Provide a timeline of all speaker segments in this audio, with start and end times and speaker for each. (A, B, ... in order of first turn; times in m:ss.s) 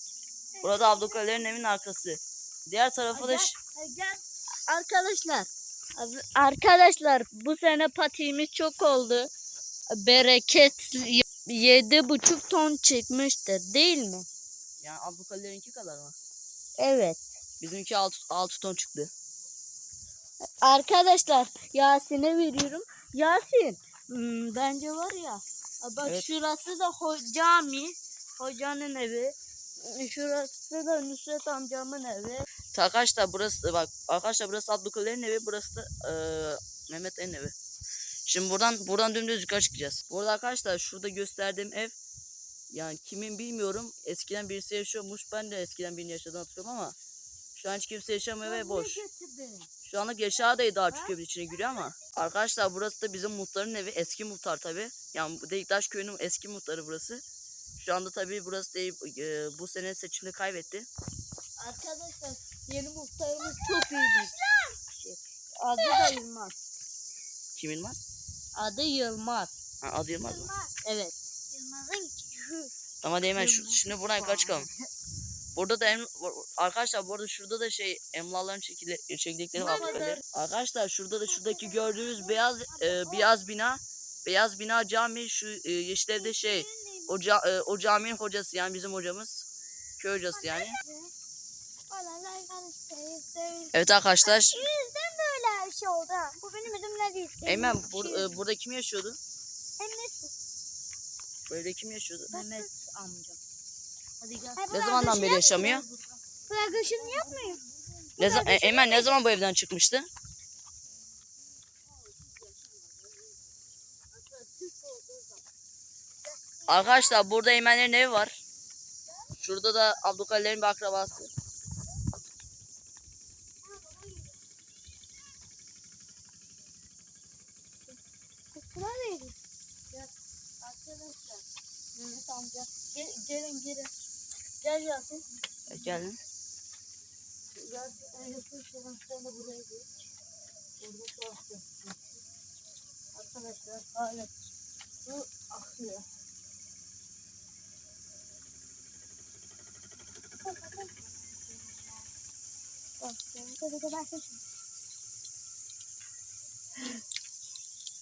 0:00.5-0:01.5 A
0:00.6-0:03.6 B
0:03.1-0:09.3 C
0:09.9-0:14.3 C
0:14.8-0:16.2 B
0:16.8-0:17.3 C
0:17.6-0:19.1 B
0:20.6-0:32.4 C
0:32.7-0:37.6 B
0:38.3-0:42.0 B
0:42.7-0:47.0 B
0:47.6-0:49.0 B
0:48.4-0:49.7 C
0:49.8-0:57.2 B
0:57.8-1:00.9 B
1:01.6-1:04.3 C
1:03.6-1:04.8 A
1:04.9-1:06.6 C
1:05.8-1:06.2 A
1:07.6-1:08.0 B
1:08.6-1:09.6 C
1:09.8-1:10.5 B
1:10.2-1:10.7 A
1:10.8-1:11.2 C
1:11.5-1:12.7 A
1:13.0-1:14.7 B
1:13.4-1:14.7 C
1:15.6-1:29.4 B
1:19.6-1:20.2 C
1:19.6-1:20.2 A
1:21.3-1:23.3 A
1:26.2-1:27.2 A
1:30.0-1:30.8 B
1:30.3-1:31.1 A
1:31.9-1:38.4 A
1:33.7-1:34.6 B
1:37.5-1:39.2 B
1:39.8-1:40.3 A
1:41.5-1:42.4 B
1:42.3-1:43.4 C
1:44.2-1:44.9 C
1:44.6-1:45.8 A
1:44.7-1:45.8 B
1:45.6-1:48.4 C
1:46.5-1:47.6 A
1:48.2-1:49.2 A
1:48.2-1:50.1 B
1:51.9-1:53.4 C
1:54.1-1:55.4 C
1:56.7-1:57.2 A
1:56.7-1:58.4 B
1:59.4-2:01.3 B
2:03.6-2:04.4 A
2:08.5-2:09.4 A
2:10.6-2:11.4 C
2:12.0-2:13.9 C
2:14.6-2:15.2 C
2:15.7-2:16.2 B
2:17.6-2:19.9 C
2:20.8-2:22.1 C
2:23.1-2:24.3 C
2:25.0-2:26.0 C
2:30.4-2:31.9 A
2:33.0-2:34.4 A